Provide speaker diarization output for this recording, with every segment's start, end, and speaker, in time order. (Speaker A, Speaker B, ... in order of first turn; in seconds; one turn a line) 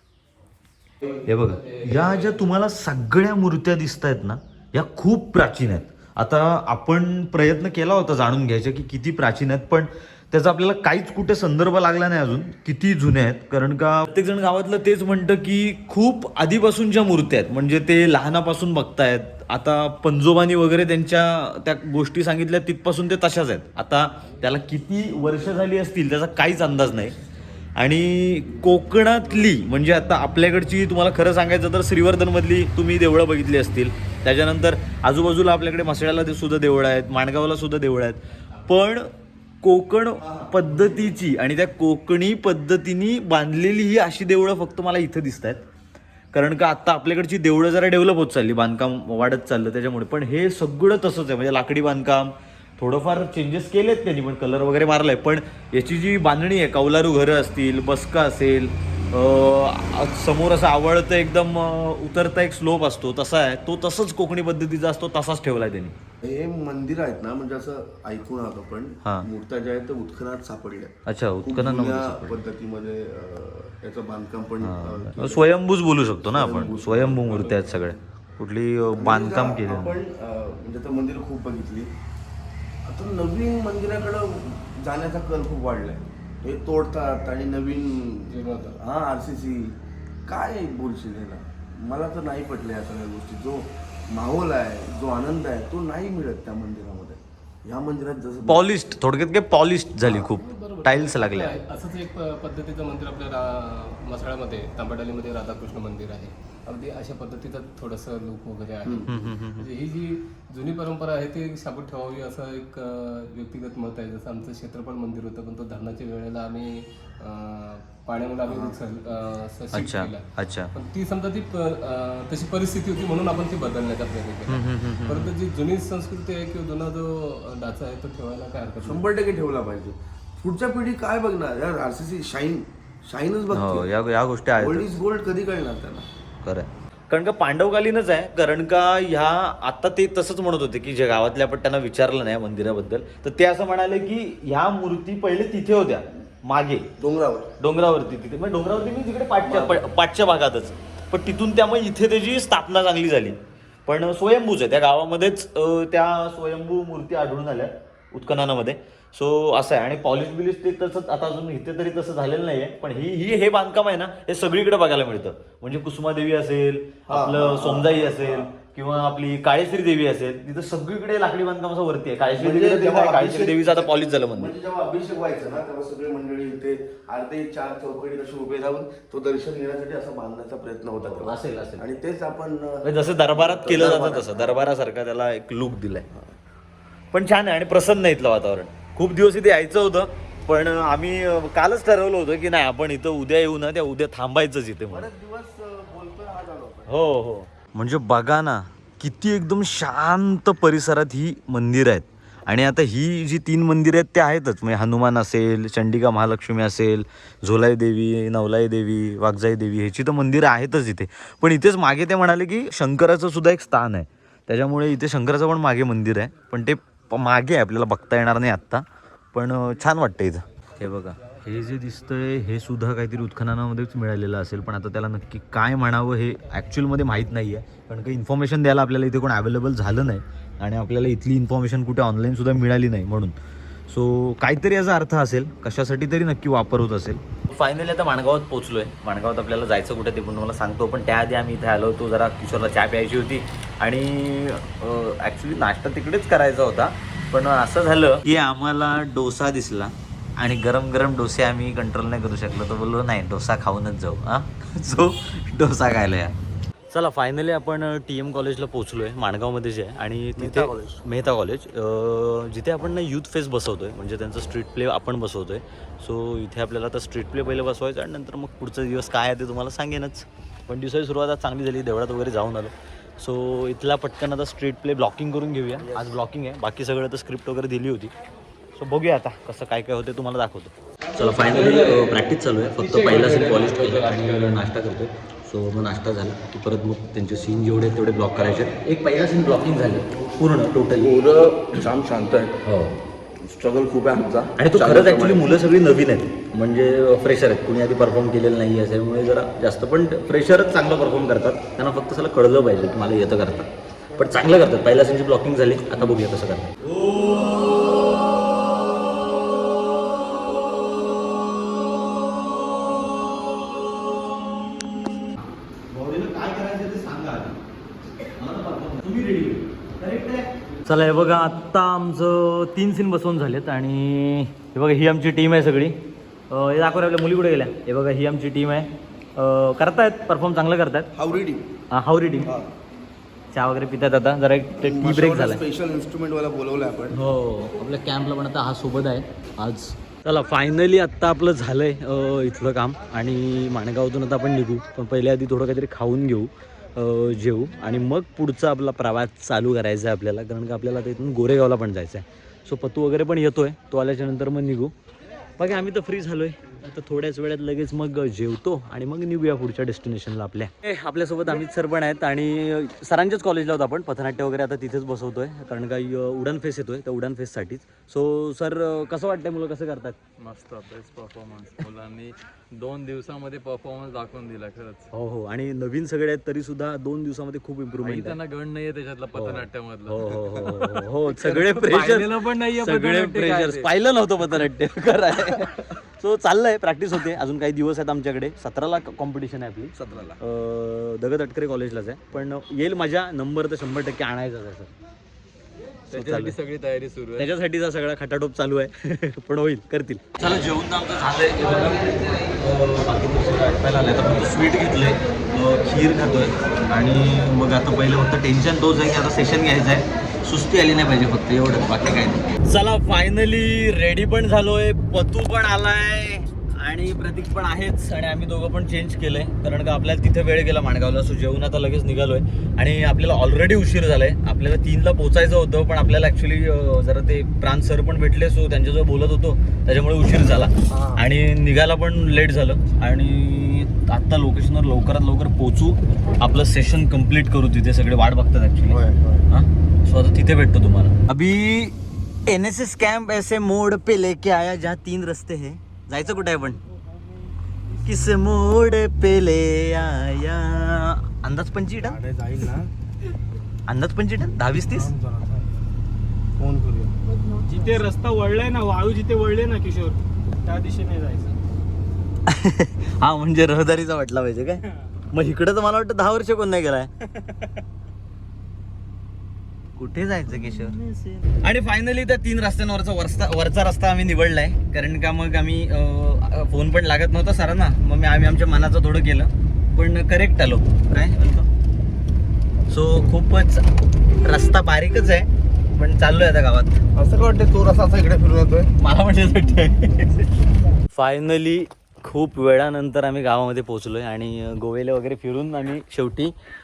Speaker A: 1.2-27.2
Speaker B: 1.9-2.3
Speaker A: 27.8-39.1
Speaker A: 39.6-45.6
Speaker C: 40.2-40.8
Speaker A: 46.3-66.0
Speaker C: 66.2-75.5
Speaker A: 71.1-72.4
Speaker A: 74.6-80.0
Speaker C: 76.2-78.0
Speaker C: 78.9-81.9
Speaker C: 82.8-98.7
Speaker B: 88.3-88.8
Speaker A: 98.5-101.6
Speaker B: 100.1-129.1
Speaker C: 108.8-109.3
Speaker A: 109.1-109.7
Speaker C: 118.5-118.8
Speaker A: 119.7-120.7
Speaker A: 124.5-125.3
Speaker C: 128.8-133.9
Speaker A: 133.5-135.0
Speaker C: 134.6-136.1
Speaker A: 136.4-146.9
Speaker C: 147.0-147.5
Speaker A: 147.6-174.5
Speaker C: 149.4-149.8
Speaker C: 167.1-168.5
Speaker C: 172.3-184.6
Speaker A: 181.0-181.8
Speaker A: 182.8-186.1
Speaker A: 187.1-195.1
Speaker C: 194.9-197.1
Speaker A: 196.9-233.4
Speaker A: 233.9-256.4
Speaker A: 256.9-278.1
Speaker C: 260.4-261.0
Speaker C: 275.8-276.2
Speaker A: 278.8-291.2
Speaker D: 281.2-284.6
Speaker C: 291.0-292.6
Speaker A: 292.6-293.0
Speaker C: 293.4-295.5
Speaker A: 294.6-309.0
Speaker A: 313.6-317.6
Speaker A: 318.4-331.1
Speaker C: 331.1-331.7
Speaker A: 331.9-332.5
Speaker C: 332.4-332.7
Speaker A: 333.5-335.6
Speaker C: 334.8-337.2
Speaker A: 337.1-354.9
Speaker A: 355.6-370.2
Speaker D: 370.4-375.1
Speaker A: 375.1-378.4
Speaker D: 378.0-383.9
Speaker A: 379.3-394.9
Speaker C: 389.9-390.4
Speaker D: 396.1-397.5
Speaker A: 396.1-396.6
Speaker A: 397.4-441.9
Speaker C: 430.9-431.2
Speaker C: 438.9-439.5
Speaker A: 442.5-446.8
Speaker A: 447.9-452.2
Speaker C: 452.0-452.9
Speaker A: 453.9-455.1
Speaker C: 454.7-455.7
Speaker C: 456.6-457.1
Speaker E: 457.5-461.6
Speaker A: 462.5-467.1
Speaker A: 470.0-481.7
Speaker A: 482.9-483.9
Speaker A: 484.4-487.0
Speaker C: 487.1-488.9
Speaker A: 489.0-490.5
Speaker A: 491.1-496.5